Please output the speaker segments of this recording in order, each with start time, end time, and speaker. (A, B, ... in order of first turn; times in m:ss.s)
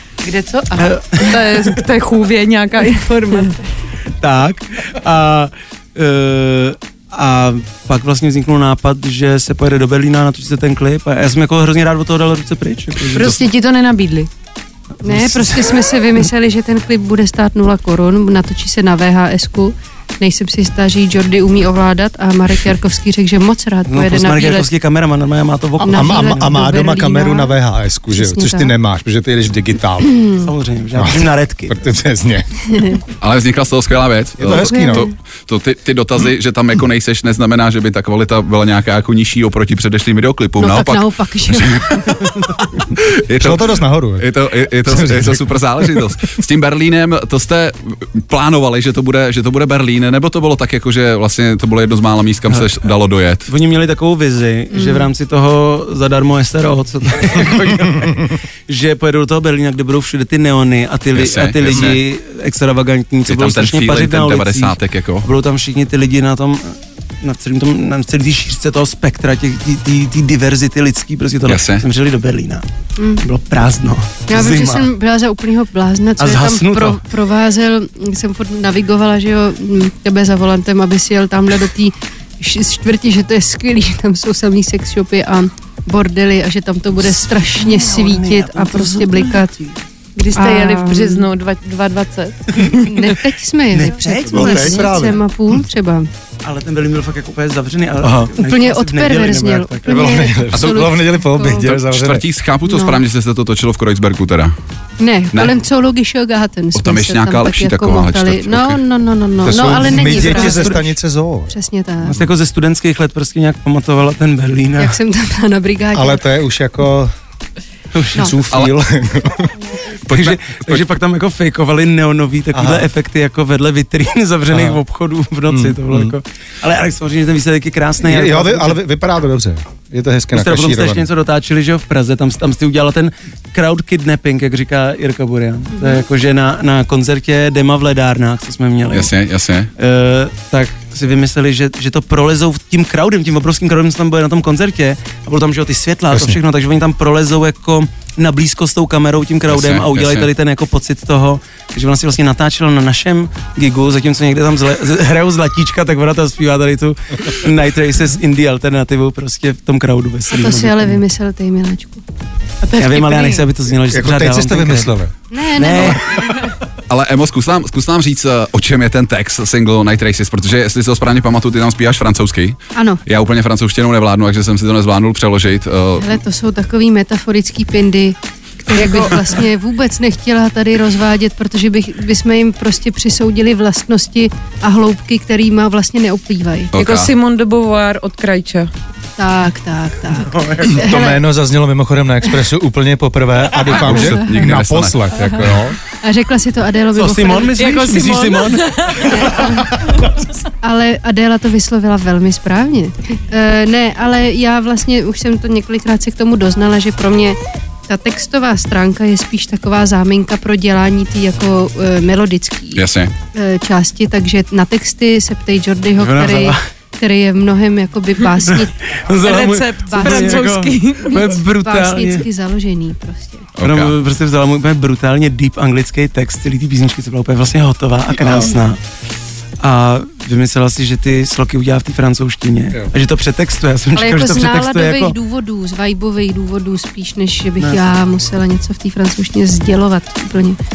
0:00.2-0:01.3 A
0:00.8-0:01.8 B
0:01.2-0:03.6 C
0:03.0-0:03.5 A
0:04.2-0:13.4 B
0:13.1-0:14.3 C
0:15.0-0:15.8 B
0:15.0-0:24.7 A
0:23.9-0:26.6 B
0:25.8-0:27.6 A
0:25.8-0:30.2 D
0:28.1-0:28.7 A
0:30.0-0:30.4 A
0:30.4-0:31.8 B
0:31.0-0:32.8 D
0:32.7-0:33.0 A
0:33.2-0:42.3 E
0:34.4-0:35.1 D
0:34.5-0:35.1 A
0:40.6-0:42.3 A
0:42.9-0:53.5 E
0:43.4-0:46.0 D
0:53.5-1:12.7 B
0:54.7-0:55.1 A
1:01.1-1:02.0 E
1:03.3-1:05.3 E
1:11.5-1:11.9 E
1:13.0-1:13.2 A
1:13.2-1:14.9 B
1:14.3-1:29.6 A
1:16.2-1:17.0 B
1:27.6-1:29.7 B
1:30.2-1:32.9 C
1:30.4-1:31.3 A
1:32.8-1:36.1 A
1:33.7-1:35.2 B
1:34.0-1:35.2 D
1:36.4-1:40.2 B
1:38.0-1:38.3 D
1:38.4-1:41.7 A
1:39.9-1:42.2 D
1:40.5-1:40.9 E
1:41.5-1:44.6 E
1:42.6-1:43.0 A
1:45.0-1:50.9 A
1:46.8-1:48.8 E
1:49.4-1:51.5 D
1:50.0-1:50.9 B
1:51.5-1:52.2 A
1:52.1-1:55.0 B
1:54.8-1:56.3 A
1:55.9-1:57.1 D
1:57.9-1:58.7 B
1:58.2-1:59.5 D
2:00.1-2:00.9 E
2:00.1-2:08.8 B
2:02.5-2:02.9 D
2:04.5-2:04.8 D
2:05.5-2:06.1 D
2:08.0-2:11.1 D
2:10.3-2:19.1 B
2:15.8-2:16.0 A
2:18.9-2:19.7 E
2:19.8-2:41.0 B
2:26.1-2:26.4 D
2:29.5-2:30.3 E
2:40.3-2:42.0 A
2:42.6-2:43.5 C
2:42.8-2:44.9 B
2:43.9-2:45.1 D
2:45.3-2:46.2 A
2:45.5-2:46.3 B
2:46.9-2:56.2 E
2:52.8-2:53.0 A
2:56.0-3:06.8 A
2:58.8-2:59.2 C
3:06.7-3:07.1 E
3:06.8-3:08.7 C
3:09.2-3:11.2 A
3:10.2-3:10.8 B
3:10.7-3:15.8 D
3:13.6-3:15.6 E
3:15.9-3:17.9 A
3:16.9-3:19.2 B
3:17.6-3:19.8 C
3:19.0-3:19.8 A
3:20.6-3:27.4 A
3:27.9-3:38.8 A
3:32.8-3:33.1 E
3:36.0-3:36.6 B
3:38.3-3:42.3 B
3:39.2-3:41.2 C
3:39.9-3:40.5 A
3:41.1-3:43.5 A
3:43.6-3:44.0 E
3:43.6-3:48.8 B
3:49.6-3:55.2 B
3:53.9-4:00.6 A
3:57.6-3:57.9 B